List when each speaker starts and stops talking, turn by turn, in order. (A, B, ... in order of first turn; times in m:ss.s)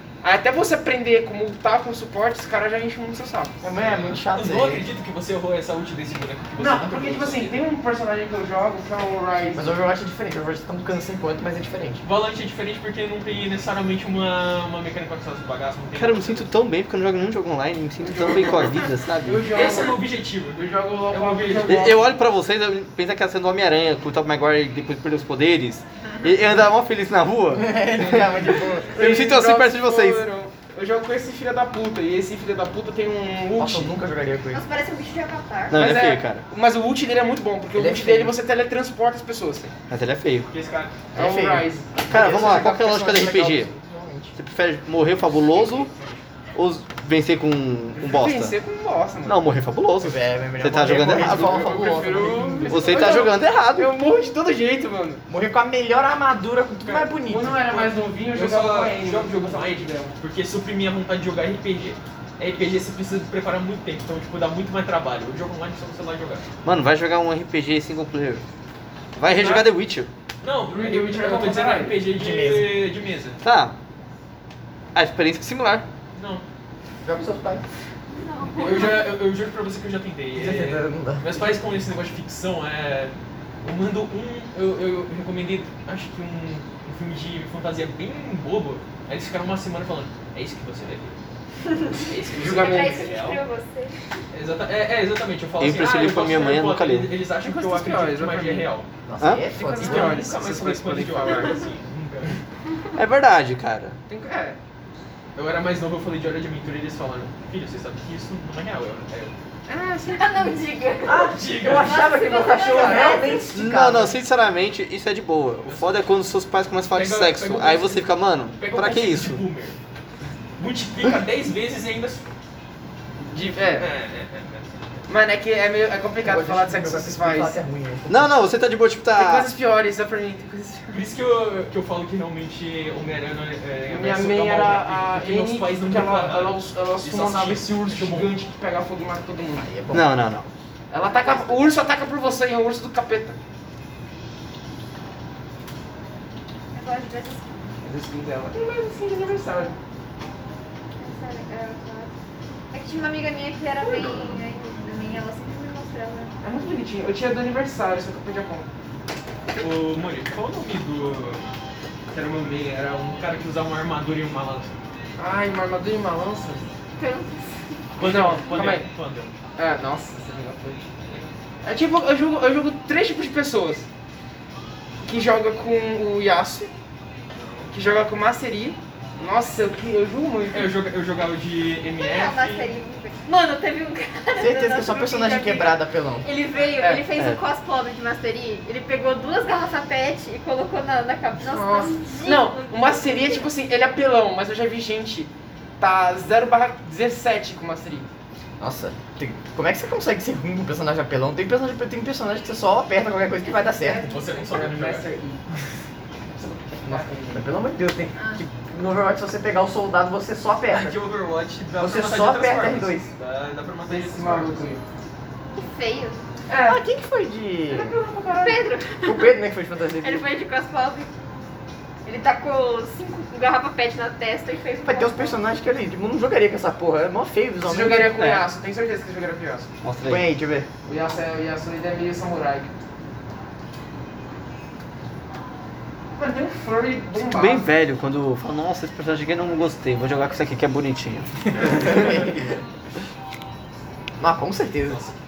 0:00.2-0:03.5 A
0:03.6-0:04.9 B
0:03.8-0:07.6 C
0:06.6-0:09.7 A
0:09.5-0:12.0 B
0:12.0-0:16.5 C
0:16.0-0:19.6 D
0:18.0-0:18.6 A
0:19.2-0:20.0 A
0:19.5-0:21.9 C
0:20.5-0:22.1 A
0:21.6-0:30.2 D
0:27.5-0:29.0 B
0:28.9-0:34.0 A
0:33.6-0:34.6 B
0:34.5-0:35.9 E
0:35.7-0:36.4 D
0:35.7-0:39.7 A
0:37.7-0:38.4 B
0:39.9-0:40.5 D
0:40.5-0:41.0 C
0:41.1-0:44.3 B
0:41.1-0:43.6 A
0:42.1-0:43.7 D
0:44.3-0:45.9 D
0:45.8-0:46.2 C
0:46.5-0:48.5 D
0:48.0-0:49.6 A
0:49.2-0:52.0 D
0:50.0-0:53.0 B
0:51.1-0:55.2 A
0:52.6-0:53.9 D
0:55.3-0:57.6 B
0:56.9-1:00.2 A
0:57.7-1:06.5 C
1:06.6-1:08.4 D
1:09.2-1:10.1 D
1:10.4-1:13.4 C
1:10.7-1:12.0 A
1:12.1-1:12.8 B
1:13.4-1:13.7 D
1:14.9-1:15.8 D
1:16.1-1:16.4 C
1:17.0-1:17.6 B
1:18.1-1:19.1 E
1:18.6-1:31.2 C
1:20.4-1:21.4 B
1:32.0-1:33.4 C
1:32.3-1:34.0 E
1:32.3-1:33.1 A
1:34.3-1:38.9 C
1:35.6-1:37.1 D
1:37.4-1:38.7 A
1:39.0-1:40.3 B
1:39.5-1:41.6 A
1:39.8-1:42.4 C
1:43.0-1:44.0 D
1:44.1-1:44.6 A
1:45.3-1:49.3 C
1:49.7-1:50.5 A
1:50.1-1:53.5 E
1:51.0-1:54.2 B
1:51.3-1:52.2 C
1:53.5-1:59.4 D
1:55.7-1:56.0 C
1:56.9-1:58.0 C
1:58.6-1:59.8 C
2:00.6-2:02.2 C
2:03.3-2:03.9 A
2:03.6-2:05.0 C
2:05.1-2:07.6 A
2:06.2-2:08.3 B
2:08.1-2:09.5 D
2:09.1-2:11.1 A
2:10.9-2:18.3 C
2:13.9-2:19.7 A
2:19.6-2:20.1 B
2:19.9-2:20.5 D
2:20.9-2:23.4 A
2:26.7-2:27.4 E
2:27.8-2:29.7 A
2:31.0-2:32.1 E
2:32.7-2:36.3 E
2:36.4-2:38.7 A
2:39.5-2:41.4 C
2:42.1-2:44.8 C
2:45.2-2:46.7 A
2:47.0-2:47.7 E
2:48.0-2:49.3 C
2:48.0-2:48.9 A
2:49.6-2:50.8 A
2:51.6-2:53.8 A
2:55.0-2:56.7 A
2:57.7-3:00.7 A
3:00.5-3:02.7 C
3:02.0-3:13.4 E
3:04.4-3:06.2 B
3:11.4-3:18.1 A
3:18.6-3:24.1 B
3:23.4-3:24.3 E
3:23.9-3:25.4 A
3:24.1-3:25.1 C
3:26.3-3:27.4 A
3:26.8-3:31.0 B
3:28.1-3:28.4 E
3:30.7-3:34.7 C
3:31.8-3:33.1 B
3:33.9-3:34.8 A
3:35.6-3:36.2 E
3:36.5-3:36.8 A
3:36.6-3:37.9 B
3:37.7-3:38.7 A
3:38.4-3:39.3 E
3:39.0-3:40.2 B
3:40.0-3:41.1 E
3:42.0-3:45.4 E
3:44.8-3:48.2 B
3:47.6-3:49.7 A
3:49.8-3:50.3 D
3:50.0-3:50.7 B
3:50.8-3:52.7 A
3:56.2-3:57.7 A
3:57.2-4:02.3 D
4:01.6-4:02.3 B
4:04.2-4:05.0 B
4:04.9-4:05.2 C